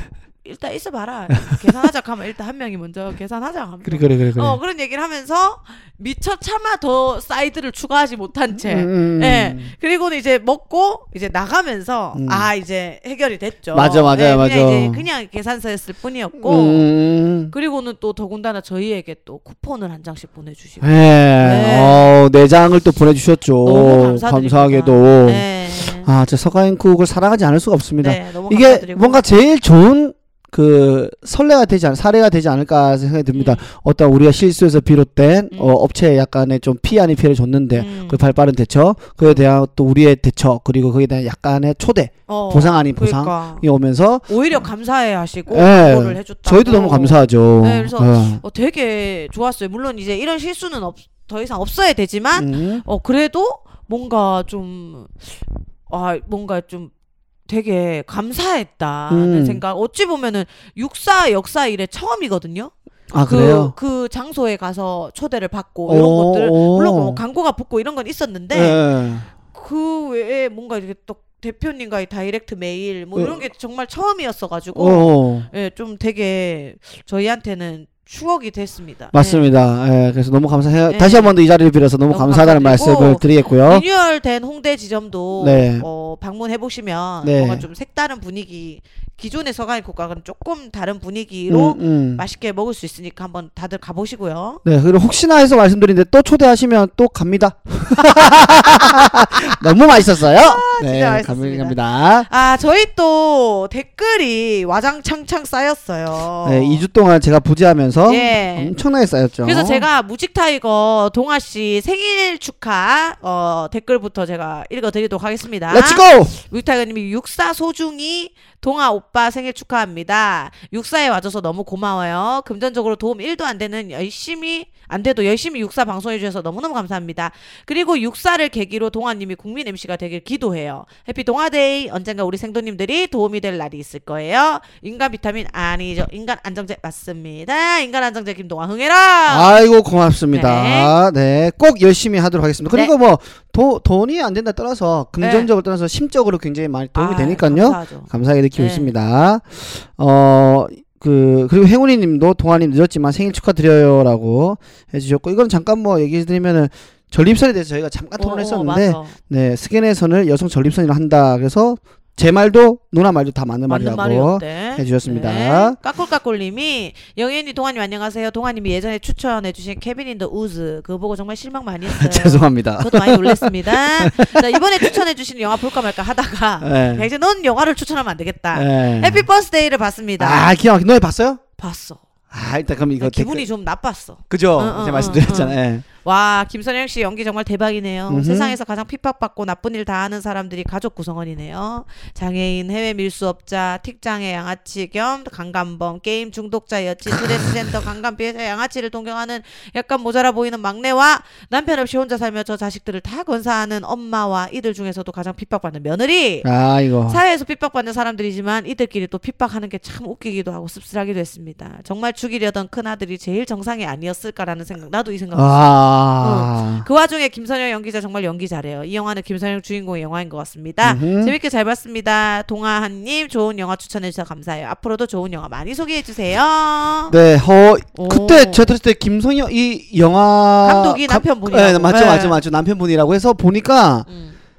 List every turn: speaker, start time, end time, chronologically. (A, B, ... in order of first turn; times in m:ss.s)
0:00.4-0:16.9 A
0:03.8-0:04.6 B
0:08.5-0:09.7 B
0:12.1-0:12.5 B
0:13.7-0:15.1 B
0:16.4-0:17.5 B
0:17.5-0:22.1 A
0:20.8-0:44.6 B
0:23.6-0:26.1 A
0:28.0-0:29.2 A
0:33.3-0:33.6 A
0:35.5-0:35.8 A
0:37.7-0:38.3 A
0:42.3-0:43.6 A
0:44.3-0:56.9 A
0:45.5-0:48.4 B
0:52.4-0:52.8 B
0:57.5-1:02.7 A
0:59.1-0:59.6 B
1:03.1-1:03.7 B
1:03.3-1:08.8 A
1:05.9-1:07.2 B
1:08.5-1:09.3 B
1:09.4-1:19.4 A
1:13.2-1:13.4 B
1:14.7-1:15.5 B
1:19.1-1:23.8 B
1:20.9-1:21.4 A
1:22.1-1:34.6 A
1:25.4-1:25.9 B
1:27.2-1:27.7 B
1:31.5-1:32.2 B
1:34.6-1:42.3 B
1:38.0-1:46.8 A
1:46.4-1:49.9 B
1:48.1-1:48.7 A
1:49.4-2:19.7 A
1:55.7-1:56.4 B
2:19.3-2:45.8 B
2:20.3-2:21.0 A
2:25.2-2:25.5 A
2:27.0-2:28.9 A
2:38.2-2:39.2 A
2:43.7-3:00.5 A
2:51.9-2:54.9 B
2:56.6-2:57.1 B
2:58.5-2:59.3 B
3:00.2-3:01.4 B
3:01.6-3:02.0 A
3:02.3-3:03.5 B
3:03.0-3:26.5 A
3:04.3-3:05.8 B
3:08.1-3:08.6 B
3:26.4-3:27.2 B
3:27.1-3:35.6 A
3:35.3-3:36.9 B
3:36.2-3:47.2 A
3:40.8-3:41.3 B
3:47.1-3:54.1 B
3:48.0-3:48.7 A
3:50.6-3:52.4 A
3:54.1-3:54.4 A